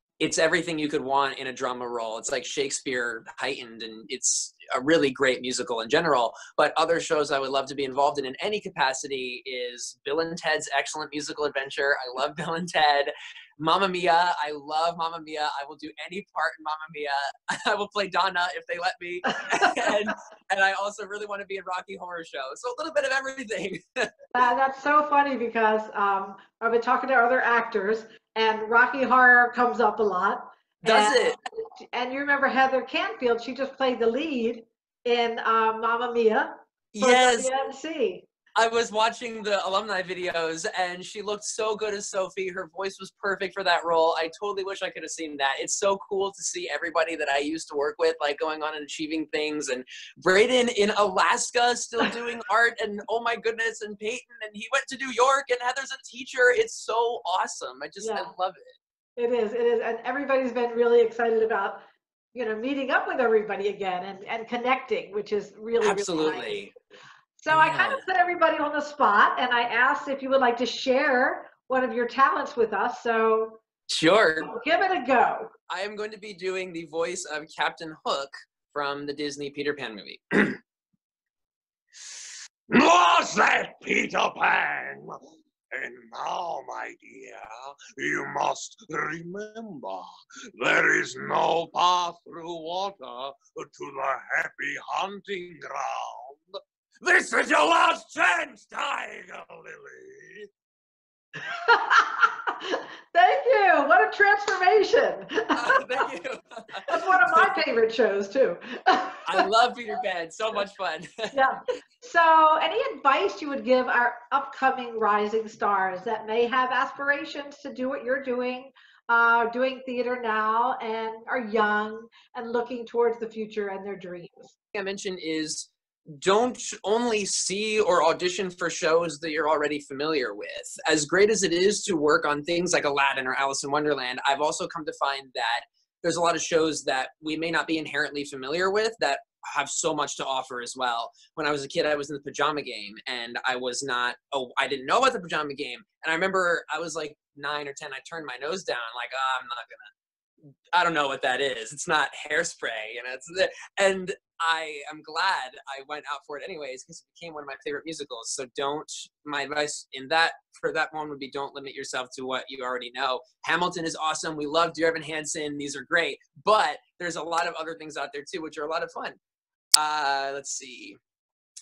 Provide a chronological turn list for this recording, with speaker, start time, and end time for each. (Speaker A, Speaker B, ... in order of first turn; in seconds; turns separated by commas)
Speaker A: 0.2-24.1, Speaker B: 19.6-19.9, Speaker B: 24.3-38.3, Speaker A: 30.8-31.4, Speaker A: 36.9-37.5, Speaker A: 38.6-58.7, Speaker B: 58.0-58.3, Speaker B: 59.2-66.7, Speaker A: 65.8-66.7, Speaker B: 67.4-73.6, Speaker A: 67.5-68.0, Speaker A: 73.9-74.5, Speaker B: 74.5-75.5, Speaker A: 75.7-80.6, Speaker C: 82.7-85.2, Speaker C: 85.7-100.5, Speaker B: 101.4-105.8, Speaker A: 105.5-107.5, Speaker B: 106.9-109.5, Speaker A: 109.3-111.4, Speaker B: 111.3-124.5, Speaker A: 124.7-149.9, Speaker A: 150.7-169.2, Speaker A: 169.8-171.0